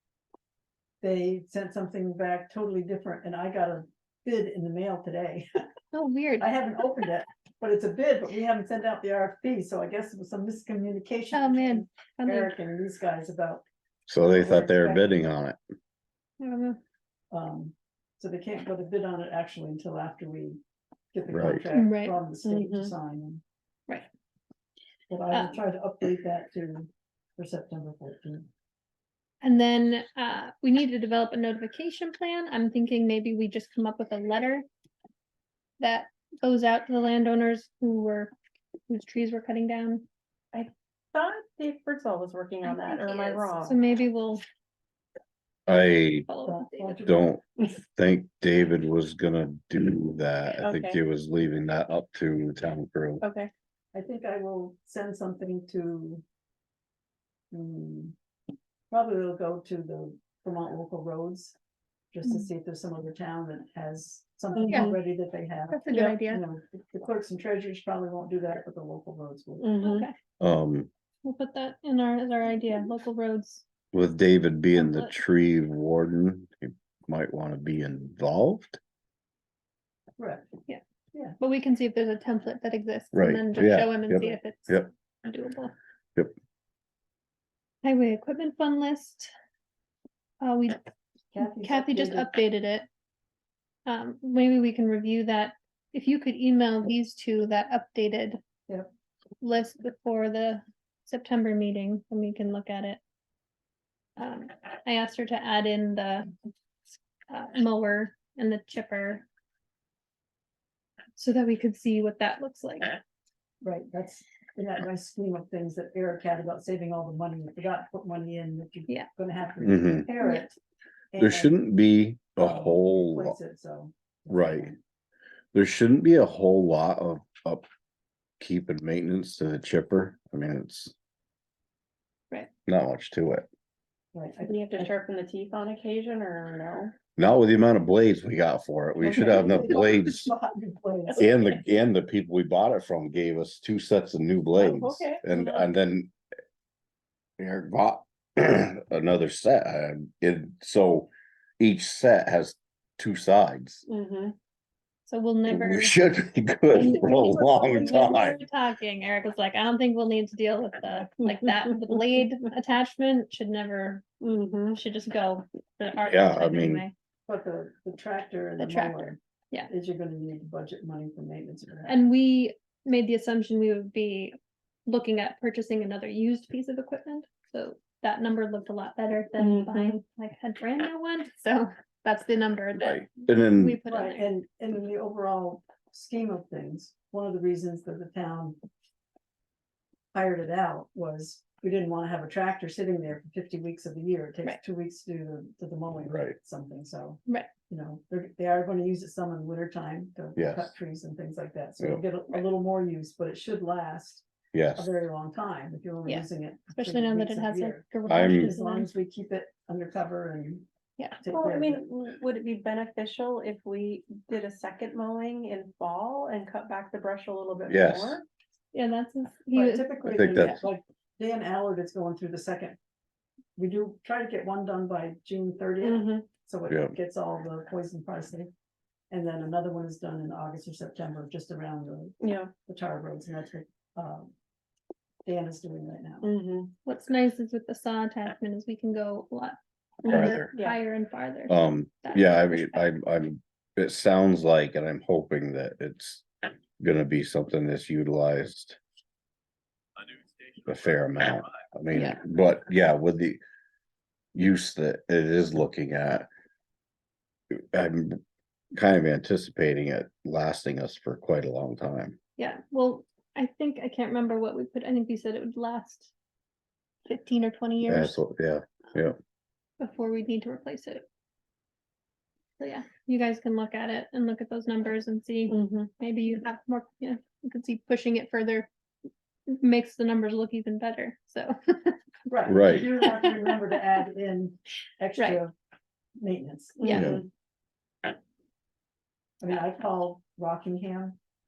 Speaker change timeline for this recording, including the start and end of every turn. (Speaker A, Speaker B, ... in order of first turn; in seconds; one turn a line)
Speaker A: 1.0-5.5
Speaker B: 5.9-6.5
Speaker A: 6.4-13.7
Speaker B: 11.3-12.5
Speaker C: 14.1-15.6
Speaker A: 14.2-15.2
Speaker B: 16.4-16.8
Speaker A: 17.3-20.6
Speaker A: 21.1-23.4
Speaker C: 21.3-21.6
Speaker B: 21.7-22.2
Speaker D: 22.4-22.9
Speaker A: 25.1-28.5
Speaker B: 29.4-34.7
Speaker B: 35.8-38.3
Speaker B: 38.9-40.0
Speaker D: 40.5-43.8
Speaker B: 42.6-44.4
Speaker C: 45.7-46.3
Speaker B: 45.7-47.0
Speaker A: 46.4-47.3
Speaker C: 47.0-53.2
Speaker D: 50.6-51.0
Speaker D: 53.2-53.5
Speaker A: 53.9-56.2
Speaker A: 57.5-58.2
Speaker A: 58.9-61.6
Speaker A: 62.1-69.7
Speaker B: 62.2-62.5
Speaker D: 64.6-65.0
Speaker B: 64.7-65.0
Speaker B: 65.7-66.4
Speaker D: 65.9-66.2
Speaker D: 69.6-70.1
Speaker B: 69.8-70.2
Speaker C: 70.4-70.9
Speaker B: 71.2-73.7
Speaker C: 73.9-78.8
Speaker B: 74.7-75.1
Speaker A: 80.2-80.5
Speaker B: 81.4-85.7
Speaker C: 83.1-84.9
Speaker B: 87.8-89.3
Speaker B: 90.4-90.8
Speaker A: 91.3-92.3
Speaker B: 91.4-92.9
Speaker B: 93.9-98.4
Speaker B: 99.4-103.0
Speaker B: 104.2-106.3
Speaker B: 107.3-109.2
Speaker B: 111.2-113.0
Speaker A: 113.6-120.6
Speaker C: 119.6-120.1
Speaker B: 120.2-120.5
Speaker A: 121.1-121.6
Speaker C: 121.2-123.4
Speaker A: 122.4-124.8
Speaker C: 124.3-124.7
Speaker C: 125.5-127.7
Speaker C: 128.4-130.9
Speaker C: 132.7-133.5
Speaker A: 134.1-134.9
Speaker D: 134.4-136.9
Speaker C: 137.2-140.3
Speaker A: 139.0-141.3
Speaker C: 141.2-146.1
Speaker D: 144.6-145.7
Speaker C: 147.4-153.9
Speaker D: 153.9-154.4
Speaker B: 155.1-156.0
Speaker C: 155.5-158.4
Speaker B: 156.7-164.1
Speaker D: 161.3-162.3
Speaker D: 164.2-164.8
Speaker B: 164.8-166.9
Speaker C: 166.1-166.8
Speaker A: 167.3-172.0
Speaker B: 168.6-169.7
Speaker B: 171.9-174.4
Speaker B: 174.9-184.3
Speaker D: 179.4-180.0
Speaker C: 182.8-183.8
Speaker A: 183.9-188.6
Speaker A: 190.1-210.7
Speaker C: 196.1-196.4
Speaker C: 200.4-200.7
Speaker C: 204.5-204.9
Speaker B: 206.1-208.9
Speaker C: 208.1-208.6
Speaker A: 211.2-211.8
Speaker D: 211.3-218.2
Speaker C: 217.7-218.2
Speaker B: 218.7-219.9
Speaker A: 219.5-222.8
Speaker C: 220.1-220.6
Speaker A: 223.6-228.5
Speaker D: 225.8-226.3
Speaker C: 226.7-226.9
Speaker A: 229.1-234.3
Speaker D: 232.2-232.5
Speaker A: 235.2-236.3
Speaker D: 236.2-236.7
Speaker B: 236.9-242.8
Speaker D: 240.0-240.8
Speaker C: 240.1-240.5
Speaker C: 241.5-248.8
Speaker C: 250.7-253.4
Speaker B: 251.9-252.2
Speaker C: 254.3-256.3
Speaker C: 257.5-258.2
Speaker C: 258.8-262.2
Speaker B: 262.4-266.1
Speaker B: 267.1-268.2
Speaker C: 267.9-269.2
Speaker B: 269.8-271.0
Speaker B: 272.6-278.7
Speaker D: 275.5-275.9
Speaker B: 279.5-282.0
Speaker A: 282.3-285.5
Speaker C: 282.5-282.9
Speaker B: 283.0-283.5
Speaker A: 286.2-287.1
Speaker D: 286.8-287.2
Speaker B: 286.8-287.2
Speaker C: 286.9-287.2
Speaker A: 289.4-291.2